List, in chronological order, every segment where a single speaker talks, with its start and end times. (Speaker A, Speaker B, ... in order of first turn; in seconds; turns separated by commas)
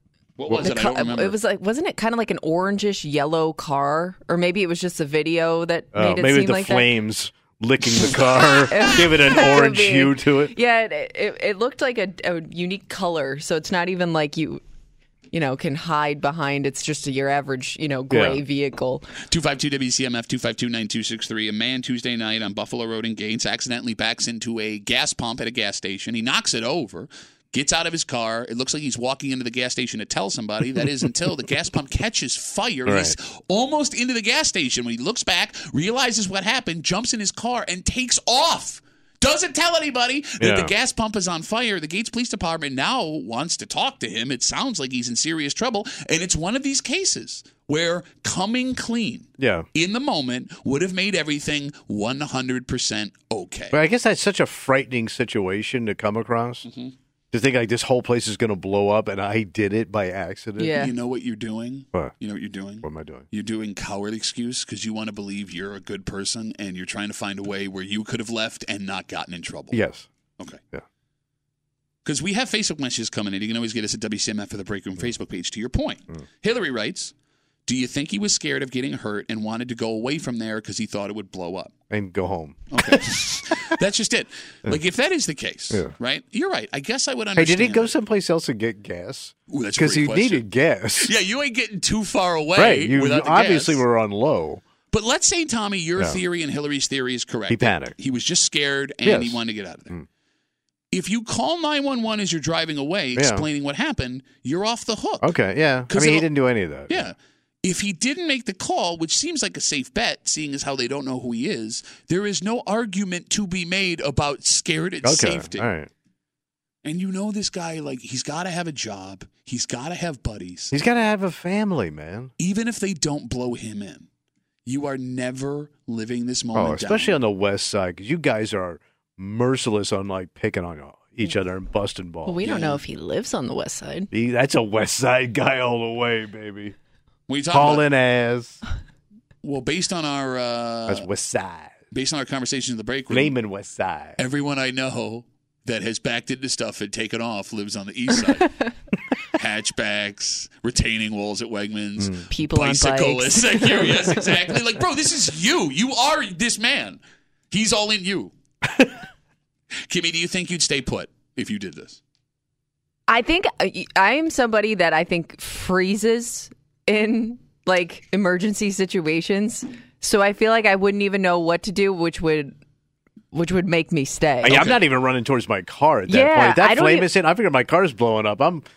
Speaker A: 0.4-1.4, Speaker B: 0.6-6.9, Speaker C: 5.9-10.5, Speaker B: 8.0-14.6, Speaker B: 15.3-19.1, Speaker C: 18.1-18.4, Speaker A: 19.3-53.8, Speaker C: 32.9-33.1, Speaker C: 40.4-40.7, Speaker C: 49.4-49.6, Speaker C: 53.7-56.6, Speaker A: 56.6-56.9, Speaker C: 57.3-60.8, Speaker B: 60.6-60.9, Speaker A: 60.8-69.8, Speaker C: 62.8-63.2, Speaker C: 69.7-70.1, Speaker A: 72.0-77.1, Speaker A: 77.7-81.7, Speaker C: 81.9-83.2, Speaker A: 82.7-87.9, Speaker C: 87.3-91.1, Speaker A: 89.5-90.4, Speaker A: 91.0-93.8, Speaker C: 92.5-94.6, Speaker A: 94.9-99.9, Speaker C: 97.5-97.9, Speaker C: 99.0-100.1, Speaker A: 100.9-105.3, Speaker C: 103.2-103.5, Speaker C: 105.2-107.1, Speaker A: 105.9-106.3, Speaker A: 106.9-115.7, Speaker C: 115.0-115.9, Speaker A: 116.8-120.7, Speaker C: 120.7-122.3, Speaker A: 122.4-124.1, Speaker A: 124.7-127.2, Speaker C: 126.5-132.5, Speaker B: 132.2-134.1, Speaker A: 132.4-132.8, Speaker C: 134.1-136.7, Speaker A: 137.3-137.9, Speaker C: 137.5-138.6, Speaker A: 139.4-141.1, Speaker C: 140.9-141.8, Speaker A: 141.9-143.3, Speaker C: 143.1-144.2, Speaker A: 144.2-148.5, Speaker A: 149.3-158.3, Speaker B: 152.3-154.1, Speaker A: 159.9-162.0, Speaker B: 163.1-172.5, Speaker B: 173.3-174.6, Speaker C: 174.4-178.6, Speaker A: 174.5-174.8, Speaker B: 176.1-177.1